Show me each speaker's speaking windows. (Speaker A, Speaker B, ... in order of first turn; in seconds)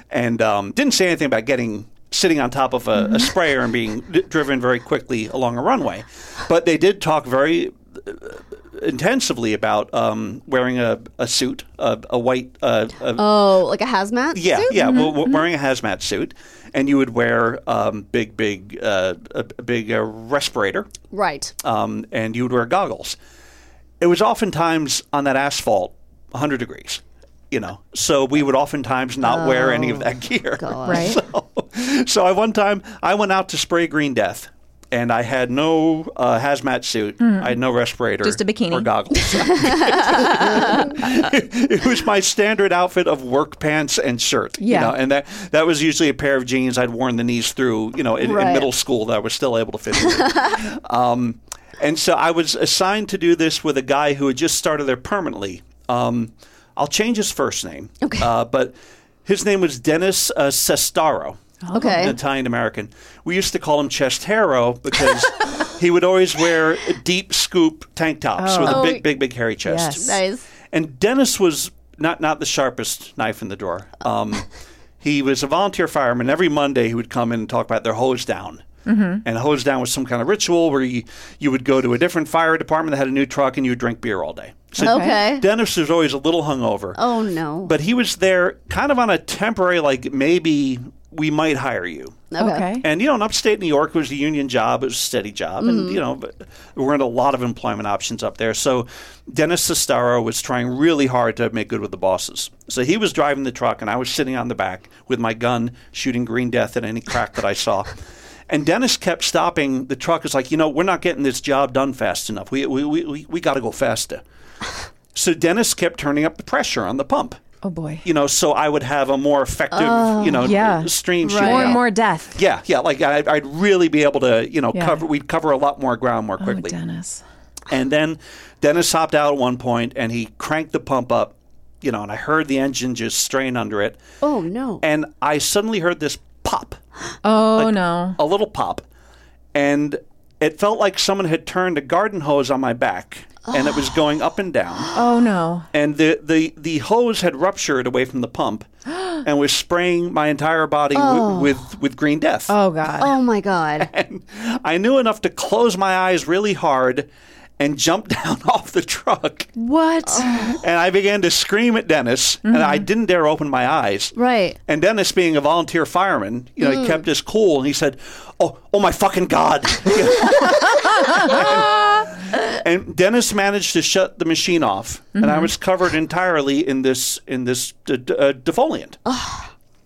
Speaker A: 0.1-13.2, 14.3-20.9, 21.6-23.2, 24.0-70.1, 70.7-74.5, 75.0-78.7, 79.2-87.0, 87.7-92.3, 92.8-108.0, 108.5-114.2, 115.1-117.4, 118.0-126.8, 127.7-134.0, 134.8-136.8, 137.5-138.8, 139.5-144.9, 145.7-148.7, 149.2-152.6, 153.8-159.5, 160.5-164.2, 164.7-179.0
Speaker B: 13.2-15.2, 21.1-21.5, 29.2-31.2, 39.6-40.9, 48.2-48.7, 50.2-50.6, 58.0-58.3, 61.7-62.2, 68.6-69.1, 69.9-70.5, 84.8-85.5, 87.0-87.7, 92.3-92.7, 95.6-96.0, 119.7-120.6, 121.2-121.8, 134.2-134.8, 143.5-143.8, 150.9-151.6, 153.0-153.9, 160.1-160.6, 164.2-164.6, 166.6-167.0, 179.1-179.5
Speaker C: 14.7-15.4, 30.8-31.2, 37.2-37.5, 38.2-38.9, 44.6-45.0, 61.6-62.2, 68.4-69.0, 69.7-70.2, 78.8-79.2, 84.8-85.3, 92.4-92.8, 117.6-118.0, 120.4-122.4, 124.7-125.0, 126.4-127.2, 137.2-138.2, 144.9-145.7, 152.5-153.2, 159.6-160.5, 162.4-162.9, 175.2-175.5